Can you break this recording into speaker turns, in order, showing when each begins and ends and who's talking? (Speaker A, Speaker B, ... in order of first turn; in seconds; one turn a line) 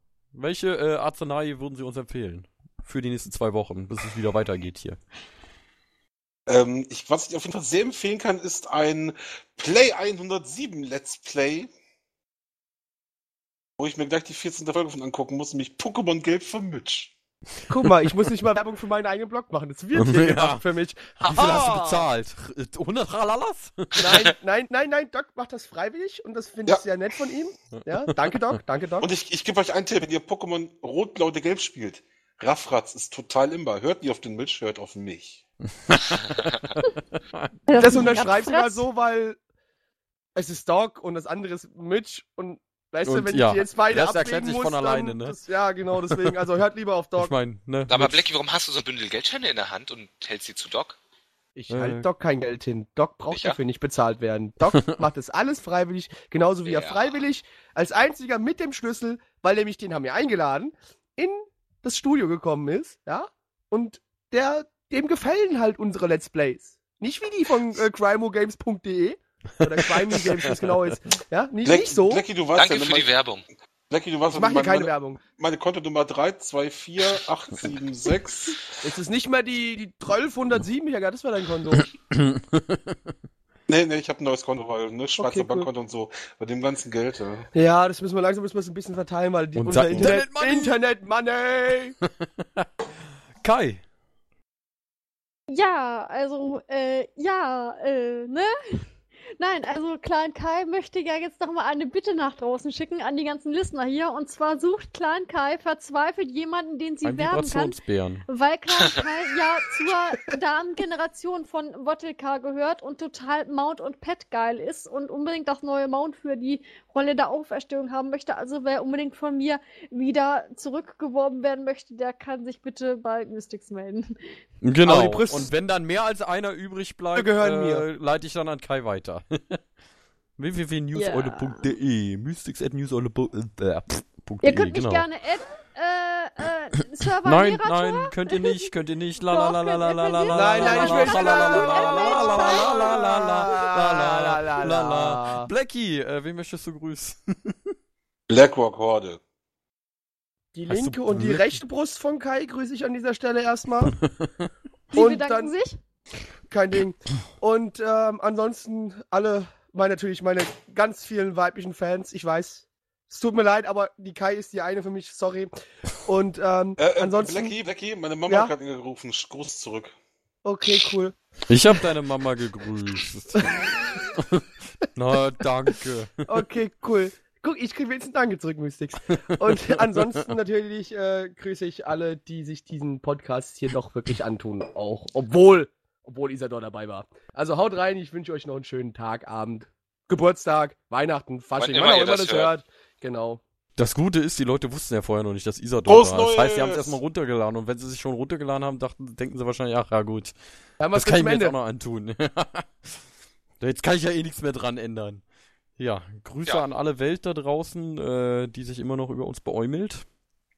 Speaker A: 0.3-5.0
Speaker B: 6.5-11.7
Speaker B: 13.8-17.1
Speaker C: 17.7-22.1
Speaker A: 19.9-20.6
Speaker A: 21.2-24.2
Speaker C: 23.9-29.1
Speaker B: 29.0-35.4
Speaker A: 35.8-38.0
Speaker D: 37.7-38.8
Speaker C: 37.8-39.4
Speaker C: 40.3-47.3
Speaker A: 43.0-45.4
Speaker A: 47.2-48.3
Speaker E: 47.9-51.0
Speaker C: 51.5-72.2
Speaker A: 51.7-52.0
Speaker E: 53.3-53.6
Speaker E: 56.6-57.1
Speaker A: 70.1-70.5
Speaker B: 71.6-73.1
Speaker E: 72.5-73.4
Speaker B: 73.9-78.7
Speaker C: 74.3-75.2
Speaker C: 78.8-81.9
Speaker A: 81.7-83.1
Speaker B: 83.7-87.5
Speaker C: 85.2-85.7
Speaker C: 87.5-92.0
Speaker A: 89.5-90.8
Speaker A: 92.0-92.7
Speaker A: 93.4-93.8
Speaker D: 95.5-98.8
Speaker D: 99.4-124.2
Speaker A: 107.0-108.2
Speaker A: 124.6-129.6
Speaker C: 124.8-125.5
Speaker C: 127.1-127.8
Speaker A: 130.4-135.0
Speaker D: 130.9-131.7
Speaker D: 134.4-143.1
Speaker A: 137.2-147.7
Speaker C: 140.3-145.5
Speaker B: 148.3-149.2
Speaker C: 150.5-153.9
Speaker A: 150.7-151.6
Speaker A: 153.9-154.3
Speaker D: 154.9-155.8
Speaker C: 154.9-155.5
Speaker C: 156.5-165.5
Speaker C: 166.0-167.5
Speaker B: 166.8-169.9
Speaker C: 168.3-168.5
Speaker C: 170.4-171.2
Speaker A: 171.5-173.6
Speaker C: 173.3-173.7
Speaker A: 174.2-176.2
Speaker C: 176.3-193.4
Speaker A: 179.1-179.5
Speaker E: 191.6-192.5
Speaker A: 193.8-200.3
Speaker B: 195.8-197.0
Speaker C: 200.8-201.5
Speaker A: 200.9-203.0
Speaker A: 203.6-205.2
Speaker A: 205.8-210.0